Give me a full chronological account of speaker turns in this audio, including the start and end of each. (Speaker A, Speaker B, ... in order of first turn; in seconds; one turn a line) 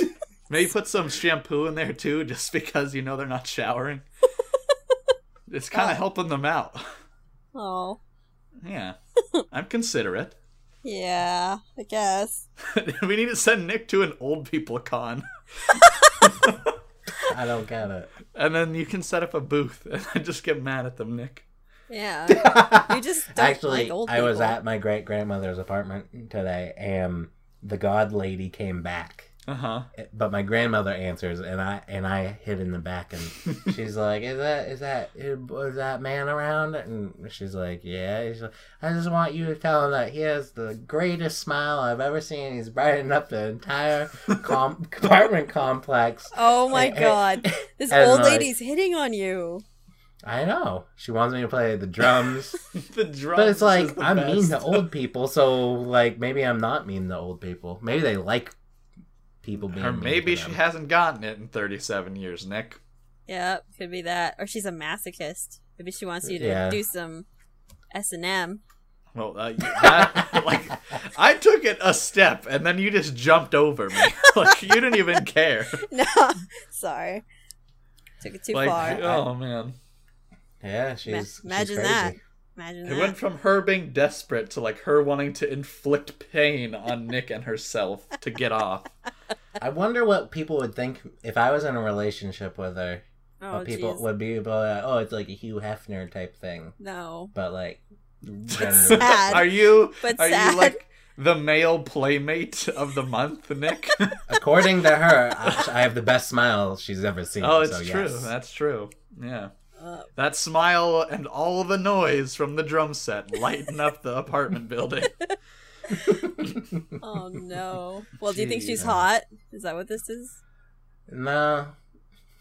Speaker A: 0.5-4.0
Speaker A: 5.5-6.8
Speaker B: 5.7-6.0
Speaker B: 7.5-8.0
Speaker A: 8.6-8.9
Speaker A: 9.5-10.3
Speaker B: 10.8-12.4
Speaker A: 12.6-16.7
Speaker C: 17.3-18.1
Speaker A: 18.3-21.4
Speaker B: 21.9-24.6
Speaker C: 22.3-29.3
Speaker A: 29.5-29.9
Speaker C: 29.9-48.5
Speaker B: 46.3-49.6
Speaker C: 50.2-52.5
Speaker A: 52.7-54.9
Speaker C: 53.3-58.5
Speaker C: 59.4-60.6
Speaker A: 59.7-62.8
Speaker B: 63.3-67.2
Speaker C: 66.2-66.8
Speaker B: 67.9-68.6
Speaker A: 69.1-75.8
Speaker C: 69.8-70.4
Speaker B: 75.9-77.2
Speaker B: 78.2-79.0
Speaker A: 78.5-79.7
Speaker C: 78.7-79.2
Speaker C: 80.6-82.2
Speaker B: 81.1-83.2
Speaker A: 82.8-88.9
Speaker C: 89.6-96.7
Speaker B: 93.4-94.0
Speaker B: 96.8-97.3
Speaker C: 97.3-99.5
Speaker A: 98.5-104.2
Speaker B: 98.9-100.8
Speaker C: 104.3-108.3
Speaker A: 107.4-109.5
Speaker B: 109.8-110.1
Speaker A: 110.2-115.2
Speaker B: 115.9-116.2
Speaker C: 116.0-116.9
Speaker B: 117.0-120.4
Speaker A: 118.3-118.8
Speaker C: 118.8-119.0
Speaker C: 121.1-121.7